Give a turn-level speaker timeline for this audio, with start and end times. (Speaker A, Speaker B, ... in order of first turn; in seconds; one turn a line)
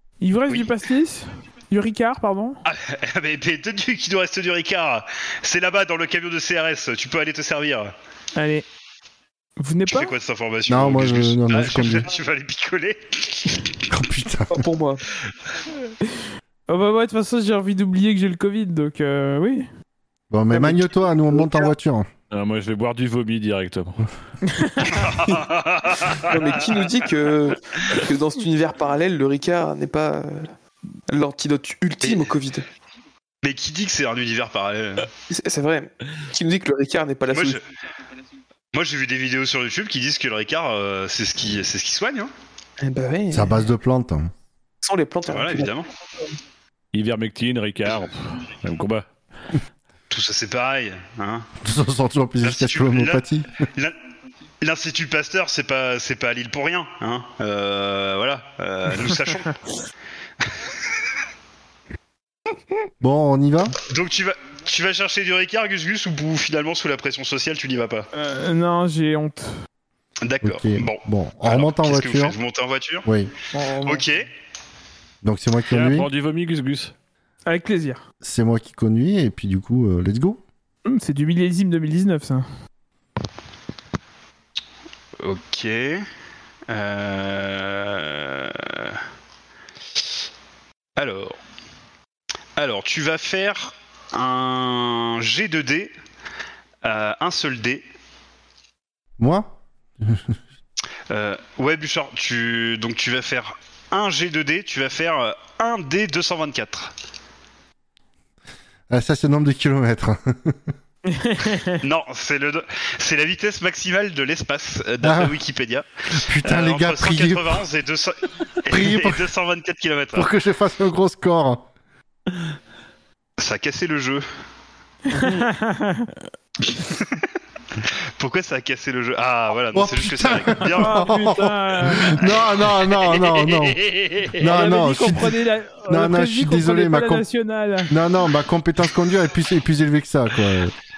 Speaker A: 0.2-2.6
Speaker B: 2.6-7.9
Speaker A: 8.4-8.7
Speaker A: 9.6-10.1
Speaker B: 9.9-13.5
Speaker C: 10.7-12.1
Speaker C: 13.9-14.7
Speaker D: 14.5-15.0
Speaker A: 16.7-19.7
Speaker C: 20.3-22.1
Speaker D: 20.5-21.7
Speaker E: 22.3-24.1
Speaker A: 24.4-25.1
Speaker B: 24.8-26.9
Speaker D: 26.1-30.5
Speaker D: 31.1-32.6
Speaker B: 32.0-32.3
Speaker B: 33.4-35.1
Speaker D: 35.3-37.6
Speaker B: 37.3-37.6
Speaker B: 38.7-42.3
Speaker D: 42.8-43.6
Speaker C: 43.3-44.3
Speaker D: 44.8-45.7
Speaker B: 45.3-45.9
Speaker E: 46.9-49.1
Speaker B: 50.1-51.5
Speaker C: 51.6-53.6
Speaker B: 52.4-53.2
Speaker B: 54.6-59.5
Speaker C: 63.0-63.8
Speaker B: 63.9-68.1
Speaker A: 68.1-69.5
Speaker B: 70.2-73.1
Speaker C: 70.4-72.4
Speaker C: 73.0-73.3
Speaker A: 73.5-74.1
Speaker B: 73.8-74.3
Speaker C: 75.2-76.1
Speaker E: 75.7-76.9
Speaker A: 77.5-78.0
Speaker C: 78.2-80.4
Speaker A: 80.9-82.5
Speaker B: 85.2-86.1
Speaker B: 86.7-89.0
Speaker B: 91.0-91.4
Speaker B: 92.6-95.9
Speaker B: 96.8-97.8
Speaker C: 99.2-100.4
Speaker B: 101.1-106.9
Speaker C: 108.9-110.6
Speaker A: 111.1-111.8
Speaker B: 111.8-115.9
Speaker C: 115.0-115.4
Speaker C: 116.1-117.6
Speaker B: 116.4-120.3
Speaker C: 118.7-119.3
Speaker C: 120.1-121.7
Speaker B: 123.4-124.2
Speaker A: 125.1-126.2
Speaker B: 126.7-131.1
Speaker C: 129.7-133.8
Speaker A: 130.8-132.2
Speaker B: 132.2-134.5
Speaker C: 134.4-137.3
Speaker A: 134.5-137.9
Speaker C: 137.9-140.7